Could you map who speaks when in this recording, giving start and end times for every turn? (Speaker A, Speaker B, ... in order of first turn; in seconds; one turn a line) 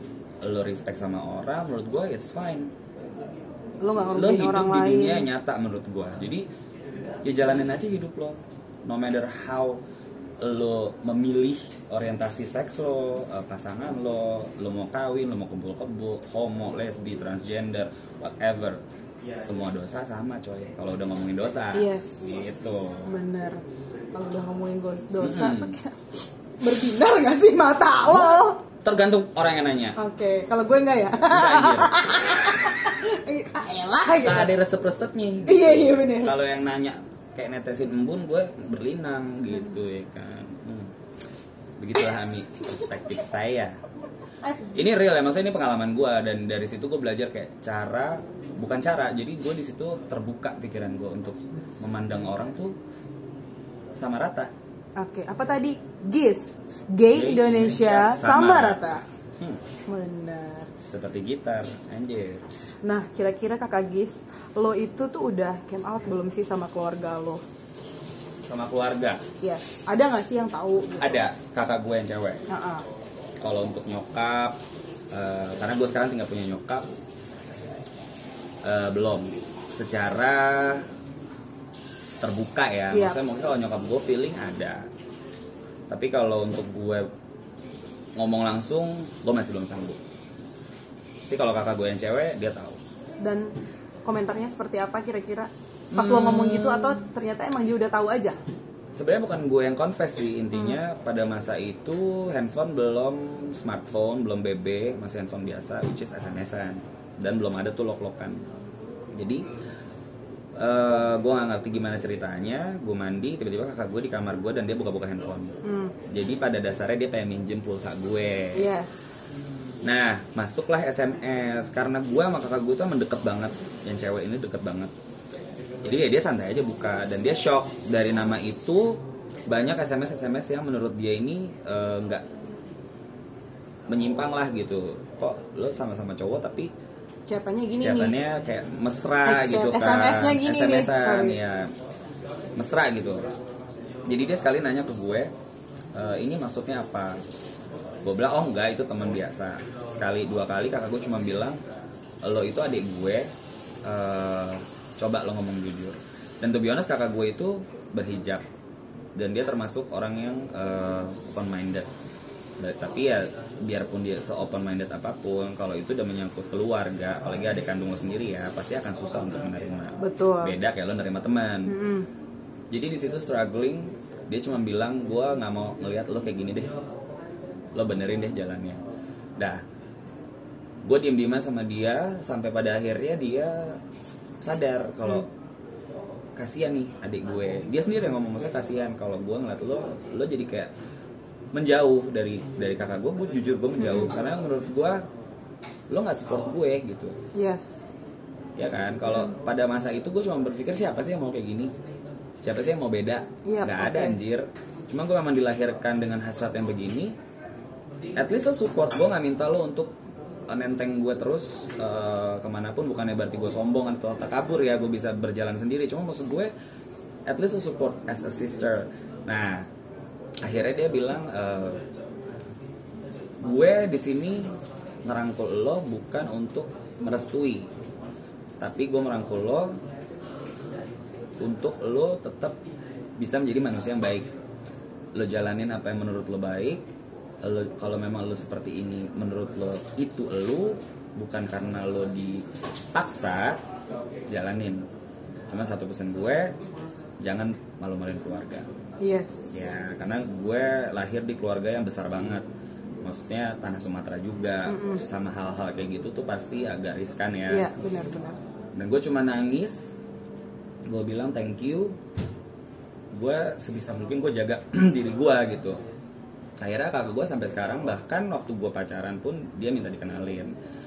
Speaker A: 0.4-2.7
Speaker B: 3.8-5.3
Speaker A: 4.1-6.4
Speaker A: 7.2-9.8
Speaker A: 10.4-18.8
Speaker A: 19.4-23.1
Speaker B: 21.7-23.6
Speaker B: 24.1-26.0
Speaker A: 25.2-25.8
Speaker B: 26.6-28.6
Speaker A: 28.0-30.0
Speaker B: 30.0-34.5
Speaker A: 31.3-32.5
Speaker A: 34.2-40.9
Speaker B: 35.5-36.3
Speaker A: 41.8-43.8
Speaker A: 44.7-52.8
Speaker A: 54.0-54.5
Speaker B: 55.0-59.0
Speaker A: 57.1-58.8
Speaker B: 59.9-60.7
Speaker A: 60.8-62.4
Speaker B: 62.8-67.4
Speaker A: 68.5-69.2
Speaker B: 69.4-71.2
Speaker A: 71.0-72.4
Speaker B: 72.5-72.8
Speaker A: 73.4-74.5
Speaker A: 75.1-76.8
Speaker A: 78.6-80.8
Speaker A: 82.2-84.9
Speaker B: 82.9-83.2
Speaker A: 85.9-87.1
Speaker A: 88.2-90.0
Speaker A: 91.3-92.8
Speaker B: 93.2-93.5
Speaker B: 94.0-98.4
Speaker A: 95.9-97.0
Speaker A: 98.9-108.4
Speaker A: 109.1-109.5
Speaker A: 110.6-115.5
Speaker B: 115.6-115.9
Speaker A: 116.1-118.7
Speaker B: 118.5-119.1
Speaker A: 119.8-124.9
Speaker A: 125.8-132.2
Speaker A: 133.9-136.7
Speaker B: 137.3-138.1
Speaker A: 137.8-141.7
Speaker B: 139.2-141.4
Speaker A: 142.6-143.2
Speaker A: 144.0-145.3
Speaker A: 145.9-147.2
Speaker A: 148.0-151.6
Speaker A: 152.2-153.3
Speaker A: 153.8-158.4
Speaker A: 159.2-161.9
Speaker A: 162.6-171.7
Speaker B: 170.0-170.5
Speaker B: 171.7-172.1
Speaker A: 172.7-176.7
Speaker A: 177.7-178.8
Speaker A: 180.8-183.8
Speaker A: 184.4-185.3
Speaker A: 186.3-190.7
Speaker A: 191.5-195.0
Speaker B: 193.8-194.1
Speaker A: 195.9-197.2
Speaker B: 197.3-197.9
Speaker A: 198.6-201.7
Speaker A: 202.4-207.1
Speaker B: 203.4-204.2
Speaker A: 208.1-209.9
Speaker A: 210.5-216.5
Speaker A: 217.3-219.7
Speaker A: 220.4-221.8
Speaker A: 223.4-224.5
Speaker A: 225.0-227.7
Speaker A: 228.6-229.8
Speaker A: 231.4-232.6
Speaker A: 233.2-234.3
Speaker A: 235.1-236.8
Speaker A: 237.4-243.6
Speaker A: 244.3-244.8
Speaker A: 245.5-246.5
Speaker A: 247.2-248.7
Speaker B: 249.0-249.6
Speaker A: 249.5-252.4
Speaker A: 253.0-257.7
Speaker B: 254.7-255.0
Speaker B: 257.5-258.4
Speaker A: 258.7-259.9
Speaker A: 260.9-261.9
Speaker A: 263.1-265.8
Speaker A: 266.6-270.5